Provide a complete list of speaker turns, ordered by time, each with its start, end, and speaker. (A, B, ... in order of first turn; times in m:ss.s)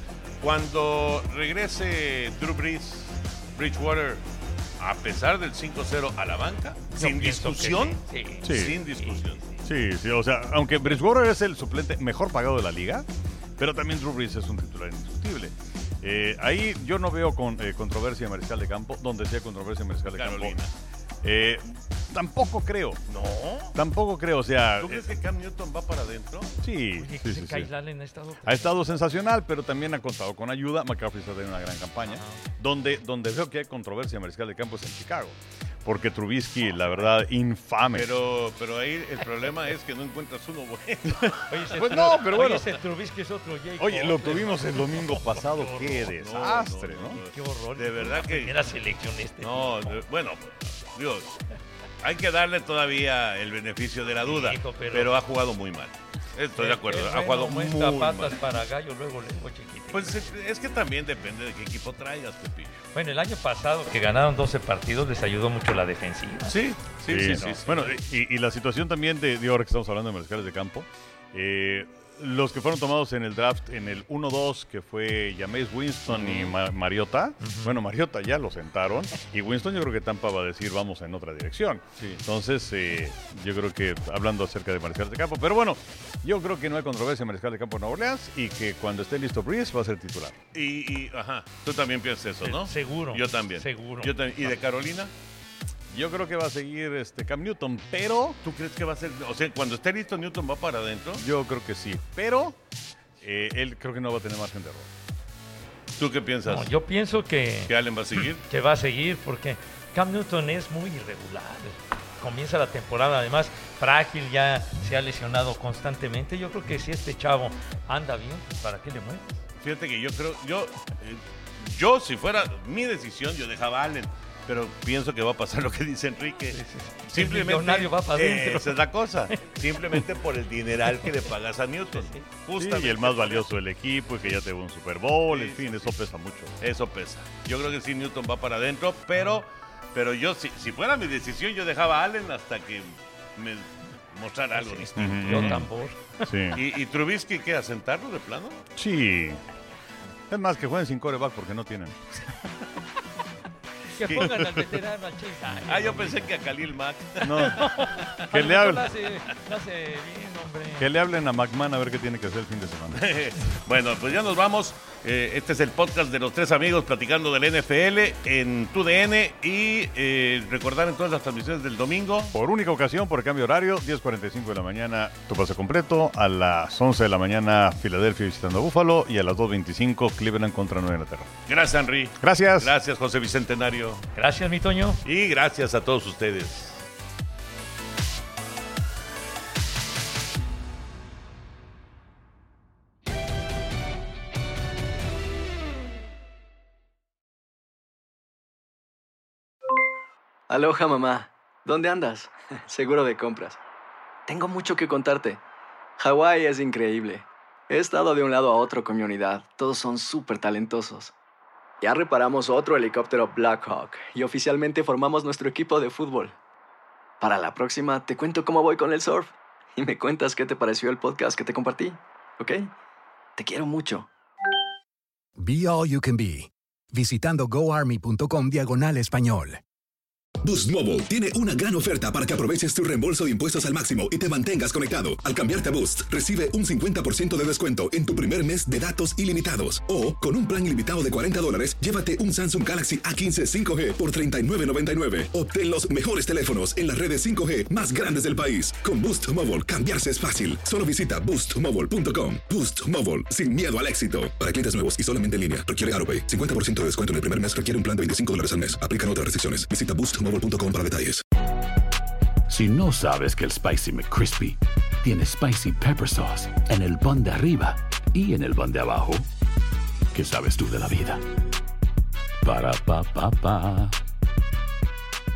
0:00.4-0:04.2 A
0:04.8-0:09.4 A
0:06.9-0:09.6 B
0:08.4-0:08.8 C
0:09.6-0:13.1 C
0:13.6-0:20.6 C
0:20.1-0:20.7 A
0:21.2-0:23.0 C
0:23.1-0:23.8 A
0:23.7-0:25.1 C
0:24.8-0:26.5 A
0:26.6-0:27.7 C
0:27.0-0:28.8 B
0:28.4-0:38.1 C
0:32.0-0:32.4 B
0:37.9-0:42.7 A
0:41.1-0:42.7 C
0:41.5-0:46.1 B
0:43.8-0:47.2 C
0:46.2-0:48.6 A
0:47.1-0:50.0 B
0:49.4-0:51.3 A
0:52.0-0:58.5 A
0:54.2-0:55.1 B
0:56.5-1:00.2 B
0:59.9-1:02.8 A
1:02.9-1:06.6 B
1:06.4-1:07.8 A
1:07.0-1:30.3 C
1:07.3-1:08.0 B
1:16.1-1:16.6 A
1:17.4-1:17.8 B
1:30.5-1:35.1 A
1:32.4-1:34.1 B
1:35.9-1:38.4 C
1:38.4-1:41.2 A
1:41.2-1:42.6 C
1:43.2-1:44.9 C
1:46.0-1:46.7 A
1:46.4-1:59.4 B
1:47.6-1:48.4 A
1:59.6-2:13.5 A
2:06.5-2:09.4 B
2:11.9-2:12.2 B
2:12.6-2:16.5 C
2:15.3-2:16.0 A
2:16.6-2:25.7 A
2:24.5-2:26.3 B
2:25.0-2:25.7 C
2:26.2-2:26.6 C
2:26.5-2:28.6 A
2:28.8-2:29.4 C
2:30.3-2:31.9 C
2:33.9-2:36.4 B
2:34.0-2:34.6 C
2:35.6-2:37.7 A
2:37.2-2:37.7 C
2:37.4-2:40.9 B
2:38.2-2:38.9 C
2:40.8-2:43.0 C
2:42.9-2:52.4 A
2:52.3-3:01.3 C
3:01.5-3:04.0 A
3:02.2-3:02.7 C
3:04.1-3:05.0 B
3:05.0-3:06.8 A
3:20.5-3:23.6 D
3:24.3-3:25.4 D
3:26.0-3:31.1 D
3:31.8-3:36.3 D
3:37.2-3:42.7 D
3:43.4-3:44.1 D
3:45.4-3:49.6 E
3:50.4-4:21.2 F
4:22.5-4:29.3 G
4:30.1-4:31.2 G
4:32.4-4:34.0 G